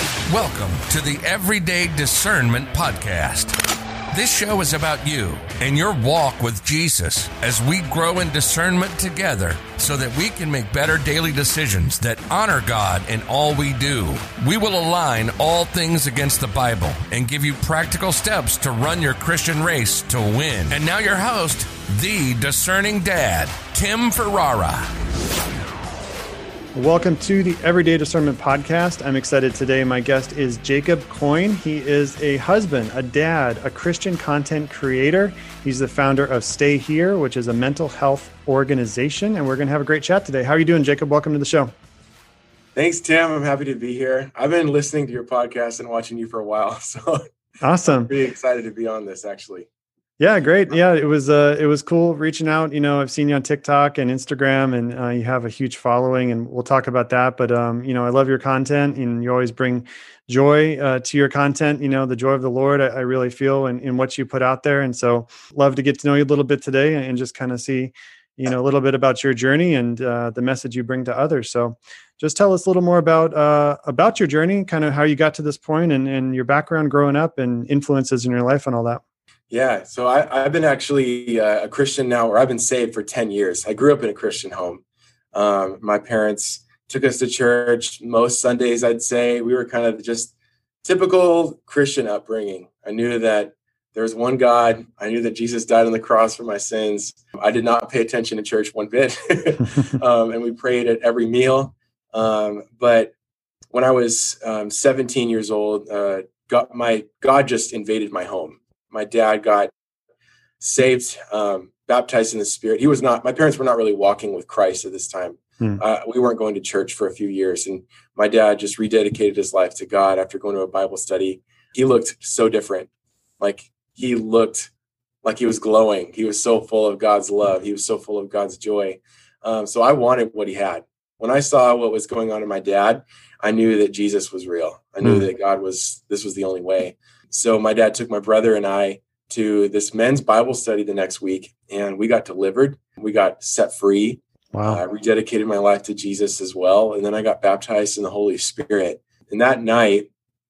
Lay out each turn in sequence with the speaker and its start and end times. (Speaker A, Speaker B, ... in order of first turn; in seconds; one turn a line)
Speaker A: 0.3-3.5
Speaker A: 4.1-24.9
Speaker B: 26.7-41.7
Speaker C: 42.7-47.2
Speaker B: 47.6-48.1
Speaker C: 47.9-49.7
Speaker B: 50.2-79.0
Speaker C: 79.5-84.8
Speaker C: 85.3-90.3
Speaker C: 90.8-103.1
Speaker C: 103.7-109.7
Speaker C: 110.6-122.9
Speaker C: 123.4-124.7
Speaker C: 125.2-150.1
Speaker B: 144.5-144.8